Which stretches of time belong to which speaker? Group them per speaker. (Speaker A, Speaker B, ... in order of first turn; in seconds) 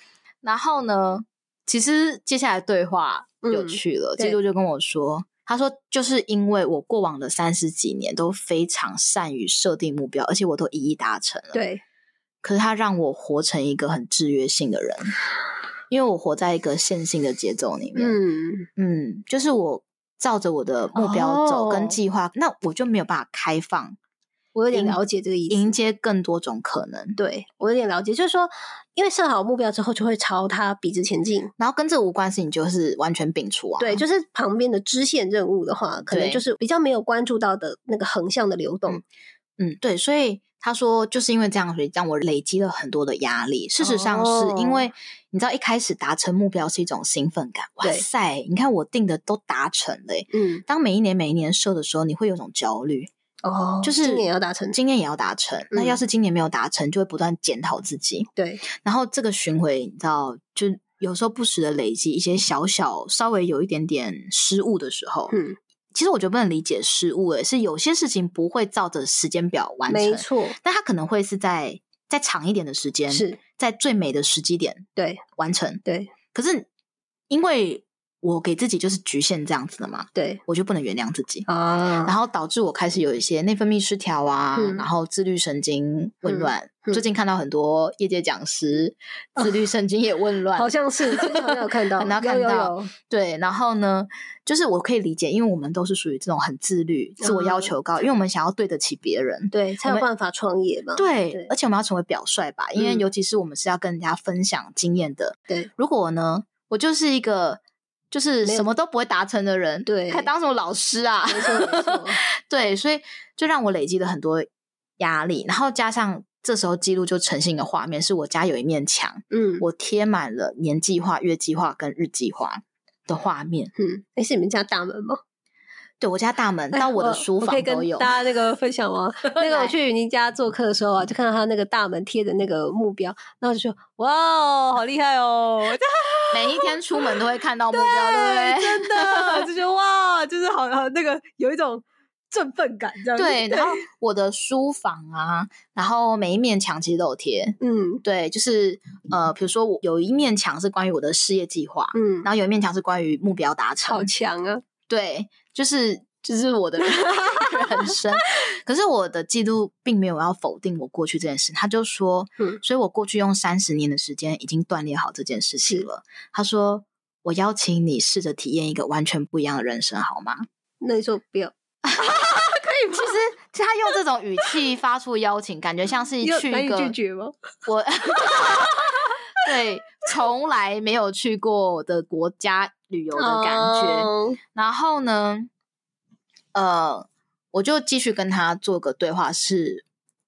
Speaker A: 0.4-11.6, 12.4-15.2, 15.9-18.2, 18.8-24.0, 24.7-27.2, 31.6-34.0, 36.1-36.4, 39.6-53.1, 53.8-58.3, 58.8-65.3, 65.9-74.8, 75.4-75.8, 76.3-76.7, 77.3-81.5, 82.0-100.1, 101.0-114.5, 115.0-123.7, 126.0-128.2, 129.3-129.7, 136.3-139.5, 143.1-154.2, 154.9-170.4, 171.9-177.0, 177.7-185.5, 186.5-189.8
Speaker B: 3.4-4.4, 11.5-11.8, 18.0-18.7, 21.0-22.0, 24.6-25.7, 27.2-31.5, 33.8-39.0, 43.8-44.9, 50.3-50.6, 53.4-54.8, 55.7-56.0, 58.4-58.6, 65.3-65.6, 69.9-70.6, 73.1-73.4, 75.0-75.2, 75.8-76.1, 80.2-80.4, 81.5-82.2, 84.5-84.9, 86.3-87.0, 90.6-92.9, 97.2-97.7, 99.5-101.5, 102.8-103.1, 109.9-110.3, 111.3-112.2, 119.3-119.7, 123.8-125.2, 126.7-137.2, 137.7-143.8, 147.6-148.0, 151.9-152.3, 153.8-154.6, 170.8-171.5, 176.2-177.3, 183.1-184.4